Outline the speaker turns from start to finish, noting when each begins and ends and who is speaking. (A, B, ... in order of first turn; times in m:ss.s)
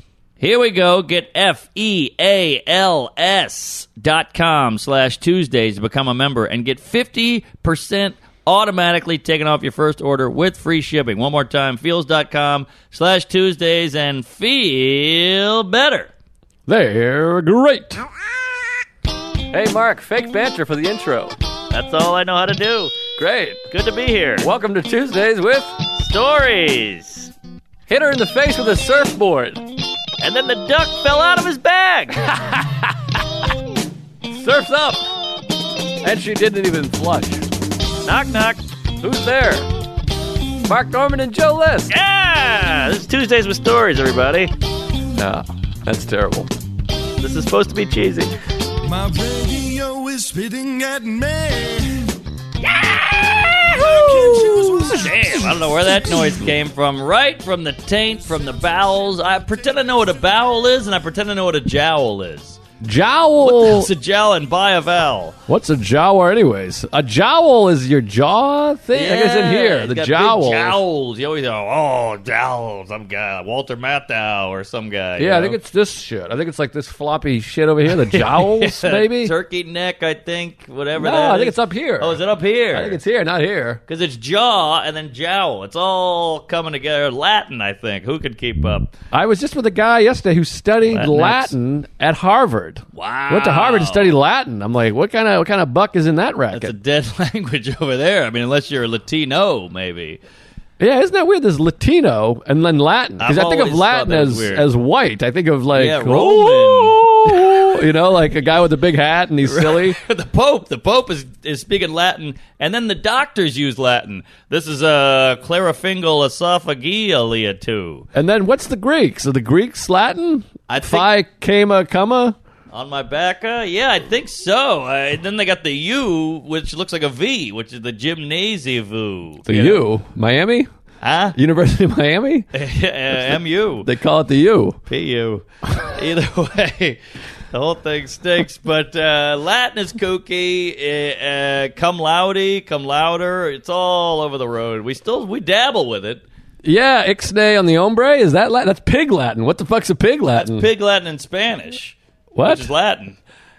0:00.4-0:16.1 A
0:16.7-0:18.0 B
0:19.5-0:21.3 B
0:21.7-0:23.0 A
0:23.2-0:23.6 B
0:23.7-0:24.4 A
0:24.4-0:25.7 B
0:25.9-0:27.3 A
0:27.9-0:29.6 B
0:30.2-0:32.2 A
0:32.2-0:32.9 B
0:34.2-0:35.0 B
0:36.0-0:37.4 B
0:38.0-0:38.6 A
0:39.0-0:39.7 B
0:40.6-0:41.9 B
0:41.9-0:44.5 A
0:45.2-0:46.5 B
0:47.2-0:48.3 A
0:48.8-0:52.1 C
0:52.6-1:02.6 A
0:53.6-0:55.6 C
1:02.8-1:03.9 B
1:03.4-1:05.4 A
1:05.5-1:10.8 B
1:08.9-1:15.6 A
1:15.2-1:19.3 B
1:17.8-1:23.0 A
1:21.0-1:22.2 B
1:22.7-1:23.8 B
1:23.9-1:28.9 A
1:29.1-1:36.7 B
1:30.8-1:31.5 A
1:32.9-1:34.1 A
1:36.5-1:40.2 A
1:40.8-1:50.0 B
1:43.2-1:44.7 A
1:45.7-1:47.8 A
1:49.4-1:58.0 A
1:58.1-2:02.4 B
2:00.7-2:01.1 A
2:02.7-2:09.8 A
2:09.4-2:10.7 B
2:11.0-2:11.4 A
2:11.3-2:12.5 B
2:12.5-2:13.9 A
2:13.8-2:14.8 B
2:14.9-2:17.0 A
2:17.5-2:26.2 A
2:26.6-2:30.7 B
2:30.4-2:33.2 A
2:32.3-2:32.7 B